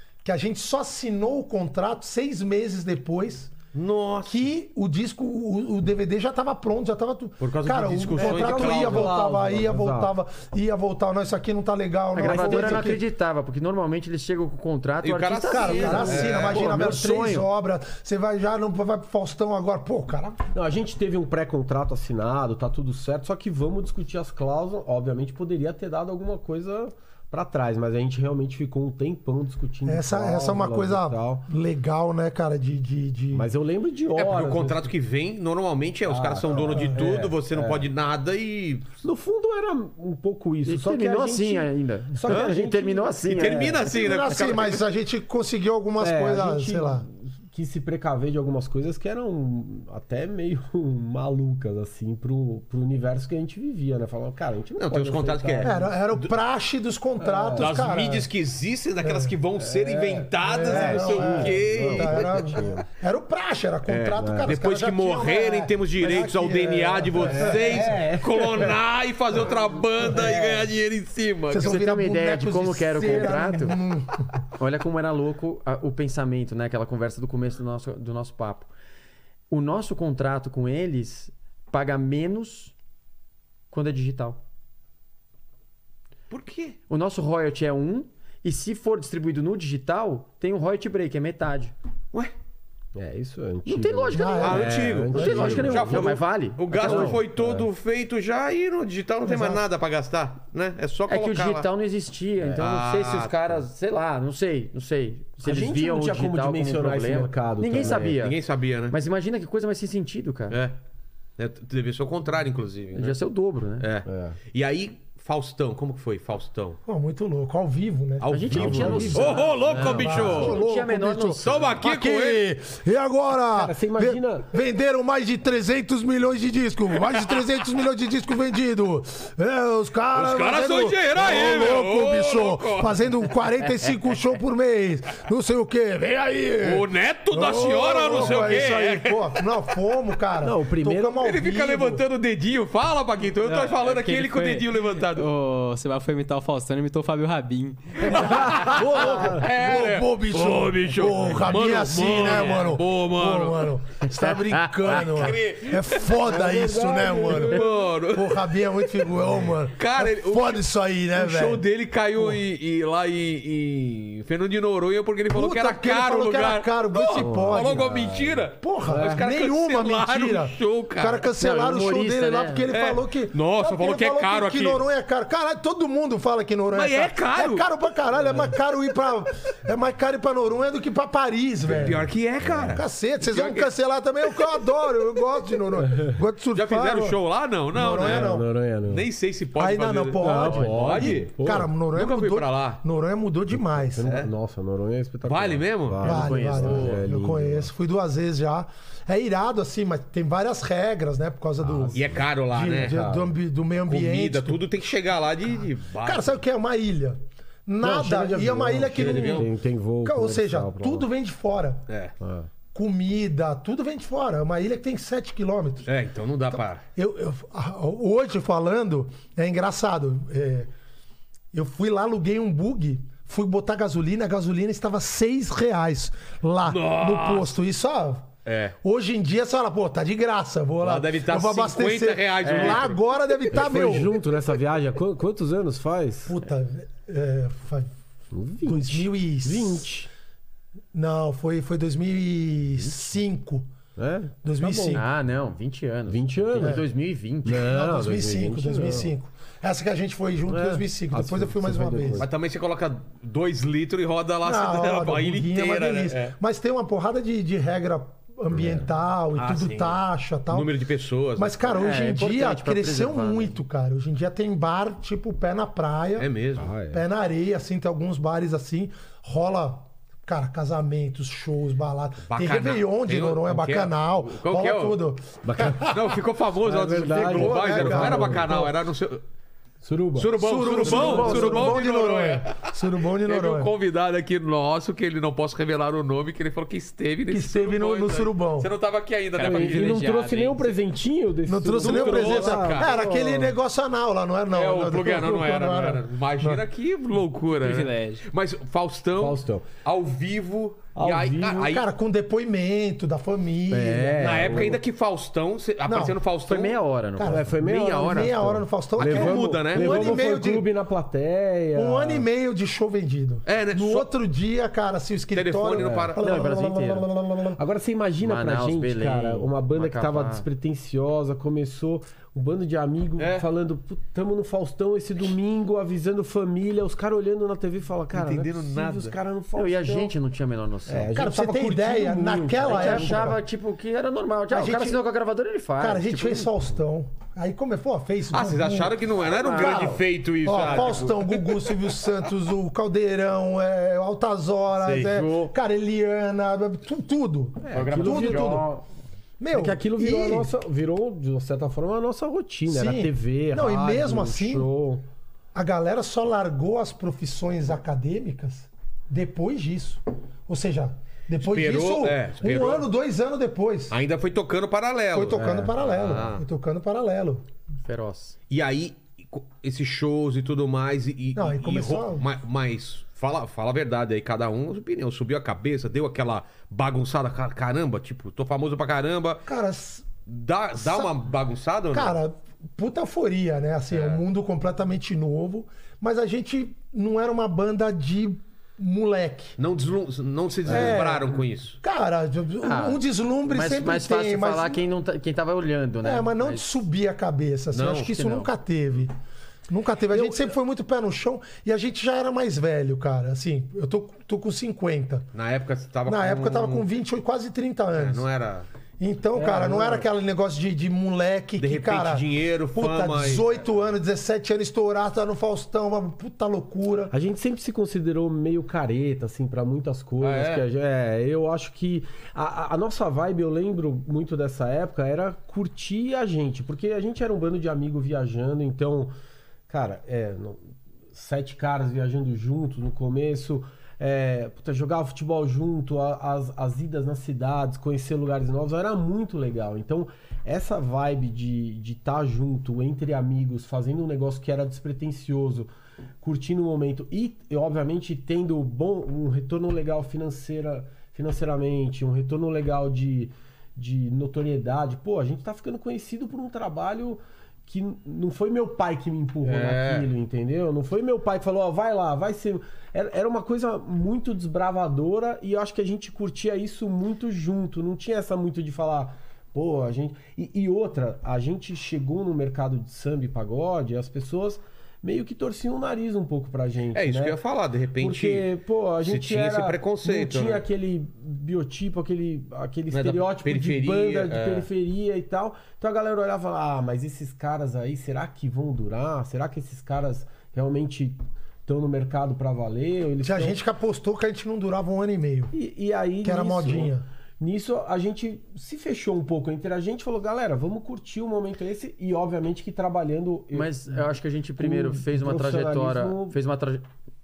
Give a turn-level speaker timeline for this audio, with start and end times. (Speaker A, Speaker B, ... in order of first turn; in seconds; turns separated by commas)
Speaker A: 0.2-3.5, Speaker B: 3.7-4.5, Speaker A: 4.2-13.0, Speaker B: 7.4-9.2, Speaker C: 8.1-10.1, Speaker D: 12.1-17.5, Speaker C: 12.2-13.0, Speaker B: 15.0-16.9, Speaker A: 15.5-20.4, Speaker C: 15.8-16.4, Speaker C: 20.5-31.5, Speaker A: 29.9-33.5, Speaker C: 33.3-34.9, Speaker B: 34.1-38.9, Speaker C: 36.1-37.9, Speaker A: 36.6-37.0, Speaker C: 39.0-43.9, Speaker D: 40.6-43.8, Speaker B: 43.3-44.8, Speaker A: 43.9-47.0, Speaker C: 46.0-55.9, Speaker B: 54.8-56.3, Speaker A: 55.6-58.3, Speaker C: 57.2-57.8, Speaker B: 57.5-62.6, Speaker A: 59.0-59.3, Speaker C: 59.6-62.9, Speaker A: 60.4-68.0, Speaker B: 63.9-71.8, Speaker C: 64.2-64.5, Speaker C: 67.1-68.8, Speaker C: 70.0-70.7, Speaker A: 71.5-74.4, Speaker D: 71.6-73.8, Speaker D: 74.6-78.7, Speaker D: 79.5-82.7, Speaker D: 83.7-84.4, Speaker B: 86.3-86.8, Speaker D: 86.9-91.7, Speaker C: 92.9-96.2, Speaker D: 93.7-97.2, Speaker A: 94.1-95.7, Speaker B: 94.4-101.7, Speaker C: 96.7-97.7, Speaker A: 99.2-99.6, Speaker D: 101.1-108.4, Speaker B: 102.5-103.6, Speaker C: 105.4-108.2, Speaker B: 107.9-109.0, Speaker D: 108.9-110.6, Speaker B: 110.5-110.8, Speaker B: 111.4-113.2, Speaker D: 112.9-113.8, Speaker B: 113.8-116.8, Speaker C: 114.0-114.4, Speaker A: 116.8-142.0, Speaker B: 118.2-120.6, Speaker D: 118.3-121.7, Speaker C: 118.5-120.3, Speaker B: 121.4-122.5, Speaker C: 123.5-124.5, Speaker B: 127.1-127.5, Speaker B: 130.1-133.9, Speaker B: 136.6-139.7, Speaker C: 140.4-141.2, Speaker B: 141.2-145.3, Speaker E: 143.4-148.8, Speaker B: 148.1-156.3, Speaker C: 148.2-149.4, Speaker A: 148.2-161.6, Speaker C: 156.2-157.7, Speaker B: 157.2-171.3, Speaker A: 165.3-168.0, Speaker C: 167.1-169.2, Speaker A: 168.6-182.1, Speaker D: 171.3-172.7, Speaker B: 172.7-174.8, Speaker B: 176.7-177.7, Speaker C: 178.2-178.5, Speaker B: 181.6-183.7, Speaker C: 182.4-182.8, Speaker A: 182.6-187.2, Speaker B: 184.2-184.7, Speaker C: 185.8-186.2, Speaker B: 186.5-188.3, Speaker A: 187.7-188.5, Speaker C: 188.0-189.1, Speaker B: 188.9-192.8, Speaker A: 189.6-194.2, Speaker C: 190.2-191.7, Speaker D: 190.4-190.7, Speaker C: 193.5-197.7, Speaker B: 194.0-194.3, Speaker B: 195.2-196.0, Speaker A: 196.0-204.7, Speaker D: 196.0-197.0, Speaker C: 201.6-202.1, Speaker B: 201.9-203.1, Speaker C: 202.8-203.3, Speaker B: 203.8-206.4, Speaker A: 206.0-209.5, Speaker C: 207.8-211.1, Speaker B: 208.9-209.5, Speaker A: 210.0-211.9, Speaker B: 211.9-212.1, Speaker C: 212.2-212.5, Speaker A: 212.7-215.9, Speaker B: 215.8-216.8, Speaker A: 216.5-220.7, Speaker A: 221.5-228.3, Speaker B: 226.6-227.5, Speaker B: 228.4-228.8, Speaker A: 228.8-234.1, Speaker B: 230.8-233.0, Speaker D: 232.4-232.9, Speaker C: 233.5-236.3, Speaker A: 236.2-237.9, Speaker C: 238.3-240.1, Speaker A: 238.6-239.9, Speaker A: 240.9-243.7, Speaker C: 244.0-245.0, Speaker A: 244.4-245.0, Speaker D: 244.9-247.8, Speaker C: 246.1-246.8, Speaker C: 247.4-249.1, Speaker A: 247.5-252.2, Speaker C: 250.5-252.3, Speaker B: 252.2-256.4, Speaker A: 254.4-260.7, Speaker C: 258.5-258.9, Speaker B: 259.3-261.7, Speaker A: 261.4-266.3, Speaker D: 261.6-263.6, Speaker B: 266.2-266.7, Speaker C: 266.6-267.0, Speaker A: 266.9-276.2, Speaker B: 272.2-275.0, Speaker C: 275.4-275.9, Speaker B: 275.7-279.2, Speaker C: 276.6-278.7, Speaker A: 276.9-278.7, Speaker C: 279.8-281.8, Speaker B: 280.1-290.4, Speaker A: 280.4-283.7, Speaker A: 287.3-288.7, Speaker E: 289.4-290.7, Speaker C: 289.4-293.6, Speaker A: 291.5-296.6, Speaker B: 291.7-292.9, Speaker B: 294.5-301.9, Speaker E: 297.6-298.2, Speaker C: 299.1-299.8, Speaker C: 300.9-301.8, Speaker A: 301.6-304.8, Speaker C: 303.7-304.8, Speaker B: 304.2-306.8, Speaker A: 305.9-306.2, Speaker D: 306.5-307.4, Speaker A: 307.2-310.7, Speaker C: 307.2-312.3, Speaker B: 307.6-308.4, Speaker B: 308.9-310.3, Speaker A: 311.8-317.6, Speaker B: 313.4-314.1, Speaker B: 315.3-316.2, Speaker C: 315.7-316.2, Speaker D: 316.2-317.1, Speaker C: 317.5-330.1, Speaker D: 318.2-320.4, Speaker B: 323.2-323.5, Speaker B: 328.1-329.2, Speaker D: 329.5-331.1, Speaker C: 330.9-333.4, Speaker A: 331.1-333.4, Speaker D: 332.6-336.5, Speaker A: 334.5-335.0, Speaker A: 335.8-348.6, Speaker B: 338.3-342.1, Speaker D: 339.3-340.0, Speaker D: 340.6-341.0, Speaker B: 344.8-345.1, Speaker D: 344.8-345.5, Speaker C: 347.7-348.7, Speaker D: 347.7-348.8, Speaker A: 349.4-350.5, Speaker C: 349.5-355.0, Speaker A: 352.7-354.7, Speaker A: 355.5-363.9, Speaker B: 361.4-362.9, Speaker B: 363.9-366.4, Speaker A: 365.1-367.4, Speaker C: 365.4-365.7, Speaker D: 367.8-368.4, Speaker B: 368.5-379.4, Speaker A: 371.3-372.2, Speaker A: 379.5-380.1, Speaker B: 380.2-382.2, Speaker A: 380.8-381.1, Speaker A: 381.9-389.6, Speaker B: 383.9-384.2, Speaker B: 389.6-391.8, Speaker A: 390.7-394.8, Speaker C: 390.7-391.0, Speaker D: 392.6-396.8, Speaker A: 396.0-399.1, Speaker B: 397.7-398.1, Speaker D: 397.9-398.5, Speaker A: 399.7-405.2, Speaker B: 405.3-406.9, Speaker A: 406.1-408.2, Speaker B: 407.9-408.7, Speaker A: 409.0-417.1, Speaker C: 409.3-410.1, Speaker B: 411.6-413.6, Speaker C: 417.1-429.1, Speaker B: 420.2-420.6, Speaker C: 429.7-430.6, Speaker C: 431.1-445.7, Speaker C: 446.2-477.4, Speaker B: 459.4-460.1, Speaker B: 476.9-478.5, Speaker C: 478.0-493.6, Speaker B: 479.0-480.6, Speaker B: 482.9-484.7, Speaker A: 493.2-495.5, Speaker C: 495.5-506.4, Speaker A: 496.2-497.0, Speaker D: 503.5-506.9